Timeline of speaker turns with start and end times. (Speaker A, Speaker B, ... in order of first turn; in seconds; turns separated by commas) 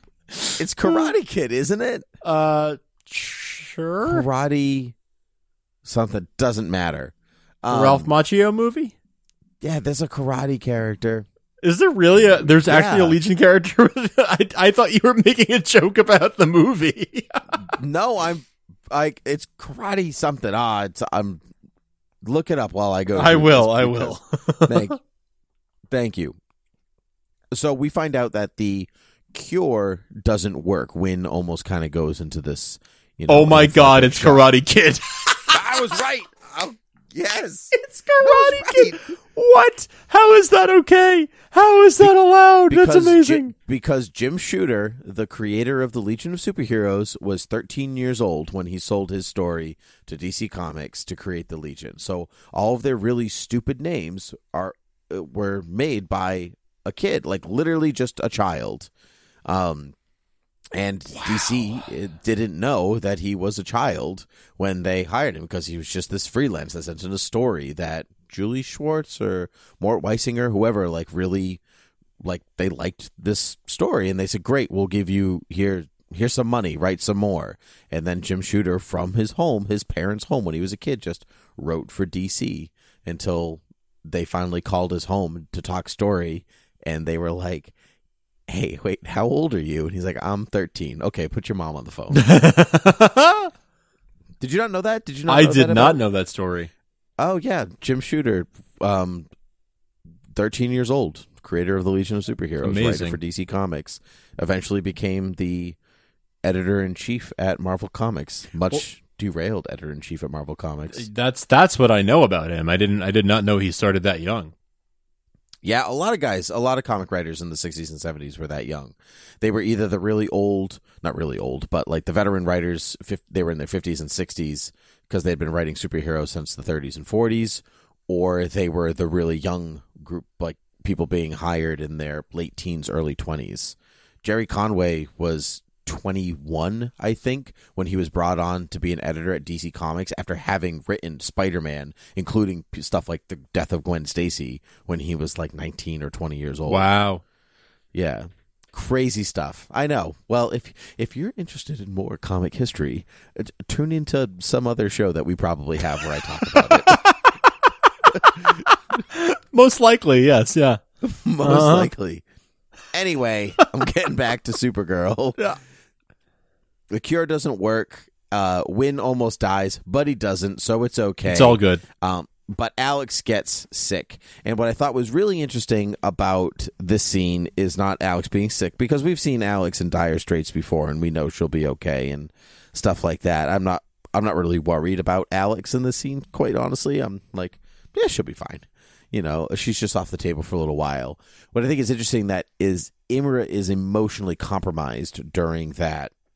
Speaker A: 0.3-1.1, Speaker B: 0.6-2.1, Speaker A: 2.2-4.2, Speaker B: 4.0-5.0, Speaker B: 5.8-8.1, Speaker A: 7.7-8.9, Speaker B: 9.6-11.3, Speaker A: 11.6-17.8, Speaker B: 12.4-13.2, Speaker B: 17.7-21.4, Speaker B: 22.2-25.0, Speaker A: 23.1-25.0, Speaker B: 25.9-26.4, Speaker B: 27.5-34.5, Speaker A: 33.3-35.6, Speaker B: 35.5-39.0, Speaker A: 37.7-43.5, Speaker B: 42.7-58.9, Speaker B: 59.5-60.0, Speaker B: 60.7-71.6, Speaker B: 72.2-87.7, Speaker B: 88.5-92.2, Speaker A: 92.1-93.5, Speaker B: 94.4-96.0, Speaker A: 95.3-96.7, Speaker B: 97.2-99.3, Speaker B: 100.3-105.8, Speaker A: 102.6-103.2, Speaker B: 106.4-111.1, Speaker A: 110.9-114.5, Speaker B: 115.6-146.9, Speaker A: 146.7-147.2, Speaker B: 147.9-157.0, Speaker A: 156.5-160.8, Speaker B: 158.2-158.6, Speaker B: 161.0-162.2, Speaker A: 161.4-161.9, Speaker B: 162.9-165.4, Speaker B: 166.9-196.1, Speaker A: 171.3-171.8